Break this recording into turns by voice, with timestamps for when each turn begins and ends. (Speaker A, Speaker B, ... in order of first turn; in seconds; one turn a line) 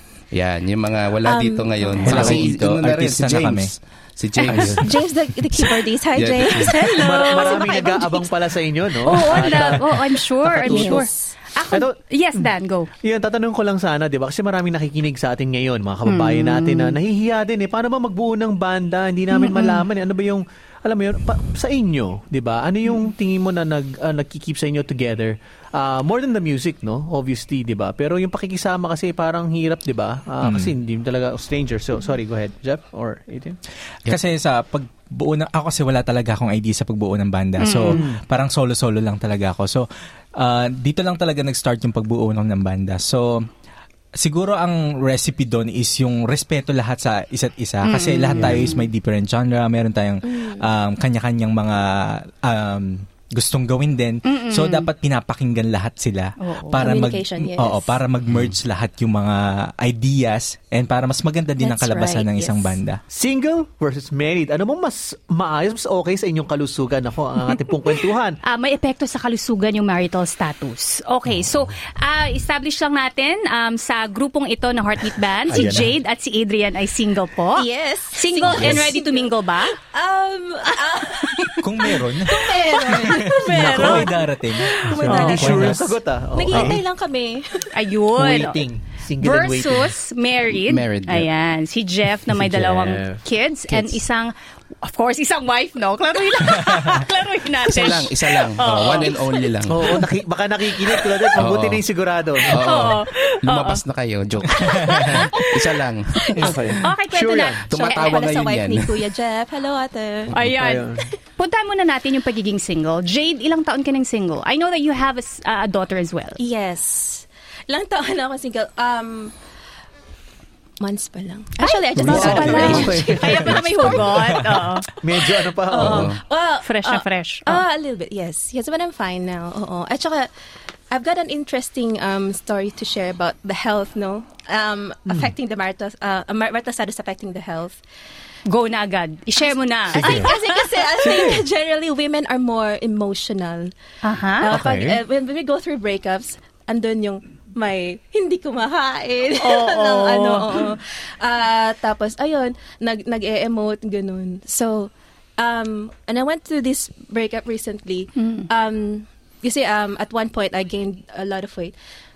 Speaker A: 0.3-5.0
Speaker B: 1.2-2.4
Speaker C: 2.0-2.5
Speaker D: 2.0-3.7
Speaker C: 4.5-4.8
Speaker B: 4.5-8.3
Speaker A: 5.6-6.9
Speaker E: 6.6-8.0
Speaker C: 7.0-11.1
Speaker E: 9.0-12.9
Speaker B: 9.1-9.8
Speaker B: 10.6-11.3
Speaker C: 11.7-12.5
Speaker C: 13.0-33.6
Speaker E: 16.1-17.0
Speaker E: 19.3-19.9
Speaker D: 30.4-30.7
Speaker D: 34.1-43.5
Speaker E: 37.6-38.0
Speaker C: 37.9-38.2
Speaker D: 44.2-63.0
Speaker E: 47.8-48.9
Speaker C: 48.4-48.6
Speaker B: 50.2-50.7
Speaker E: 54.2-54.9
Speaker E: 56.4-56.9
Speaker B: 56.8-58.0
Speaker B: 61.6-62.8
Speaker C: 63.1-68.4
Speaker E: 68.4-79.8
Speaker C: 75.5-75.9
Speaker B: 77.5-87.8
Speaker C: 78.5-78.9
Speaker D: 81.6-86.0
Speaker E: 82.9-84.1
Speaker C: 83.6-84.1
Speaker C: 84.8-86.8
Speaker E: 85.0-85.5
Speaker E: 87.7-88.6
Speaker C: 88.2-89.9
Speaker E: 89.2-100.0
Speaker A: 90.5-91.3
Speaker C: 92.3-93.2
Speaker D: 96.5-97.0
Speaker A: 97.7-100.0
Speaker C: 99.7-102.8
Speaker E: 100.9-101.3
Speaker A: 101.4-101.8
Speaker A: 102.4-106.8
Speaker E: 102.5-103.8
Speaker E: 104.5-108.3
Speaker C: 106.3-107.6
Speaker A: 107.6-109.0
Speaker B: 107.7-110.4
Speaker E: 110.3-116.4
Speaker C: 110.4-111.1
Speaker B: 116.4-119.3
Speaker B: 120.8-124.0
Speaker E: 121.6-124.9
Speaker C: 122.0-123.7
Speaker D: 122.3-122.8
Speaker D: 124.1-124.7
Speaker C: 124.8-126.2
Speaker B: 125.6-130.3
Speaker A: 125.8-126.2
Speaker E: 126.6-127.6
Speaker B: 130.9-137.8
Speaker E: 138.5-140.9
Speaker C: 139.9-140.3
Speaker B: 139.9-143.7
Speaker C: 141.0-141.5
Speaker E: 144.0-144.5
Speaker B: 144.4-161.8
Speaker C: 144.5-145.0
Speaker E: 149.4-150.7
Speaker E: 158.2-158.5